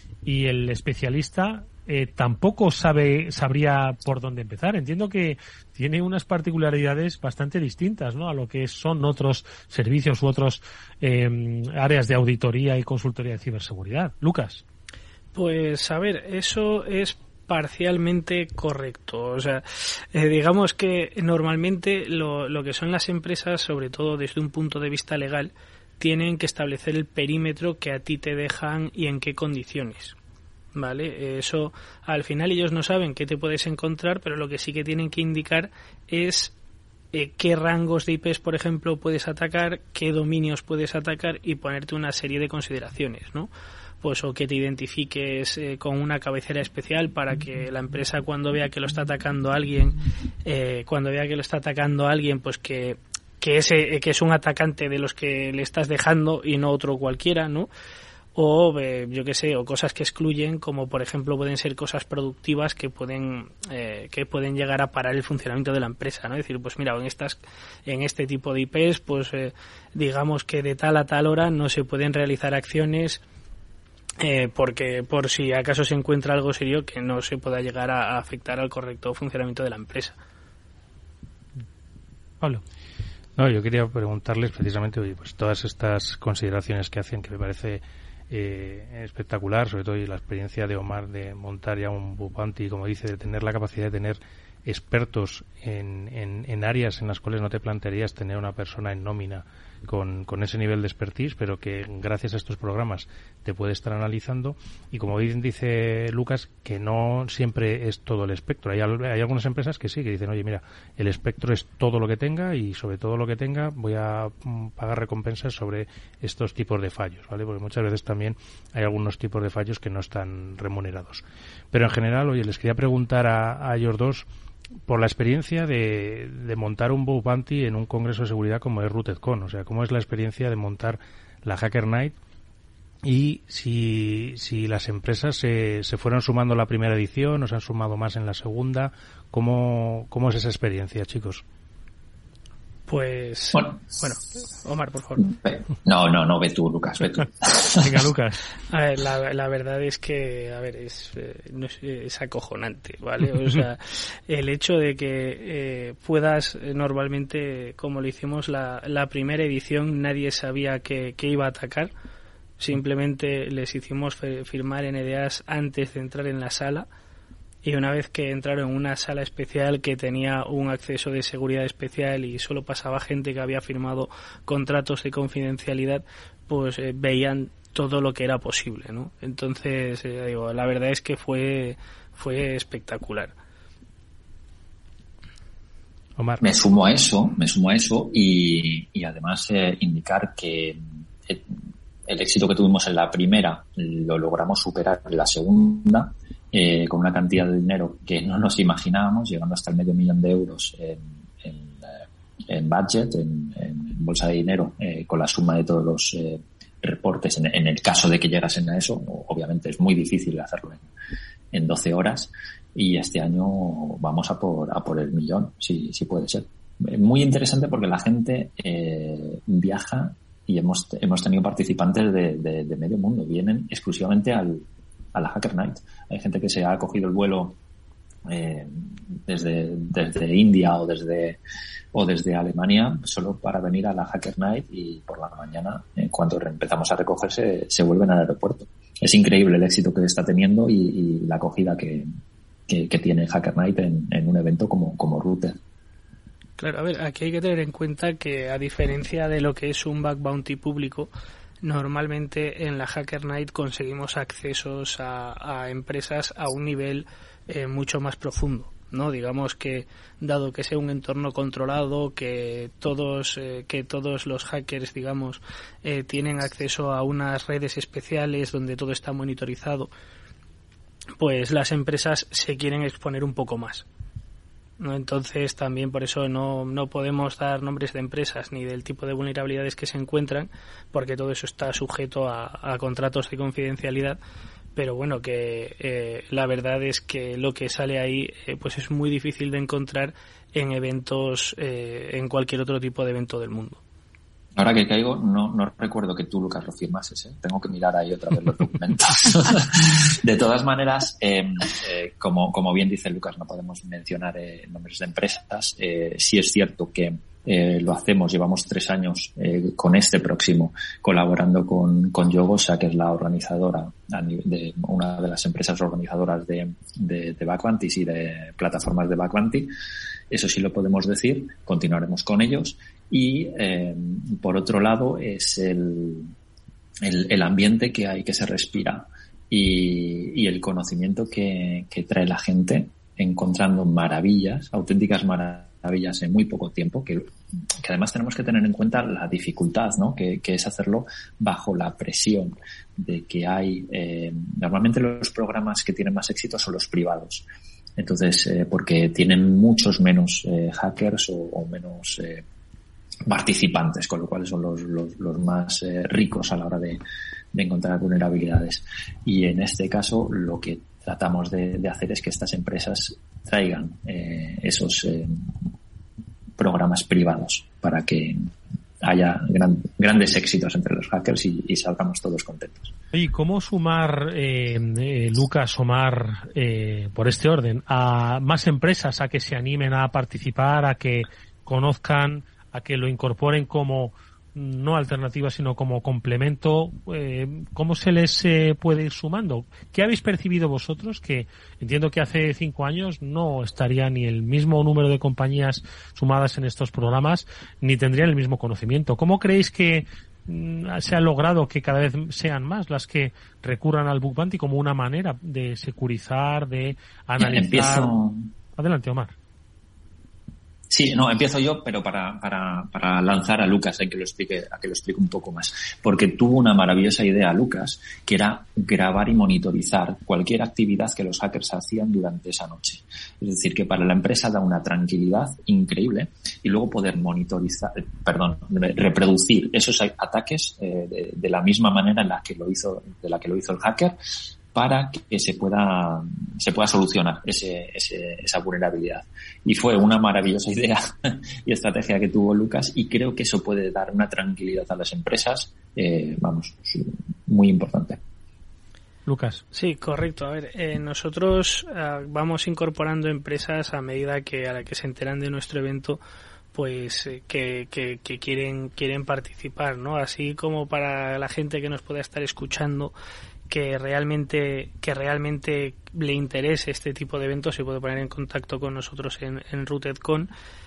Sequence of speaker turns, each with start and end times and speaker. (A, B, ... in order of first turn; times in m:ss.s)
0:00.2-0:14.6 A
0:15.3-0:30.2 B
0:30.8-0:36.5 B
0:37.1-0:43.5 B
0:44.0-0:57.7 B
0:58.4-1:13.2 B
1:14.2-1:20.2 B
1:23.4-2:04.3 C
2:04.9-2:12.2 C
2:13.0-2:21.4 C
2:22.9-2:25.3 B
2:25.2-2:28.0 D
2:27.8-2:28.4 A
2:28.7-2:41.9 B
2:42.6-2:46.9 B
2:47.6-3:03.3 B
3:06.2-3:06.4 C
3:06.4-3:11.4 D
3:12.1-3:21.9 D
3:22.5-3:30.9 D
3:31.5-3:47.6 D
3:48.3-3:51.4 D
3:51.9-4:02.1 D
4:02.7-4:05.6 D
4:06.6-4:11.1 B
4:11.6-4:29.9 B
4:31.2-4:33.9 B
4:34.8-4:44.2 B
4:44.8-4:53.8 B
4:54.6-5:19.7 D
5:20.3-5:26.3 D
5:27.0-5:37.3 D
5:37.8-5:47.5 D
5:48.0-5:52.4 D
5:53.3-5:57.0 D
5:57.5-6:05.4 D
6:06.6-6:08.5 D
6:09.0-6:12.9 D
6:13.1-6:48.2 A
6:47.4-6:48.5 D
6:48.8-6:49.4 A
6:50.9-7:14.2 D
7:14.7-7:28.2 D
7:29.3-7:29.6 A
7:29.7-7:36.2 B
7:36.7-7:43.1 B
7:43.7-7:50.5 B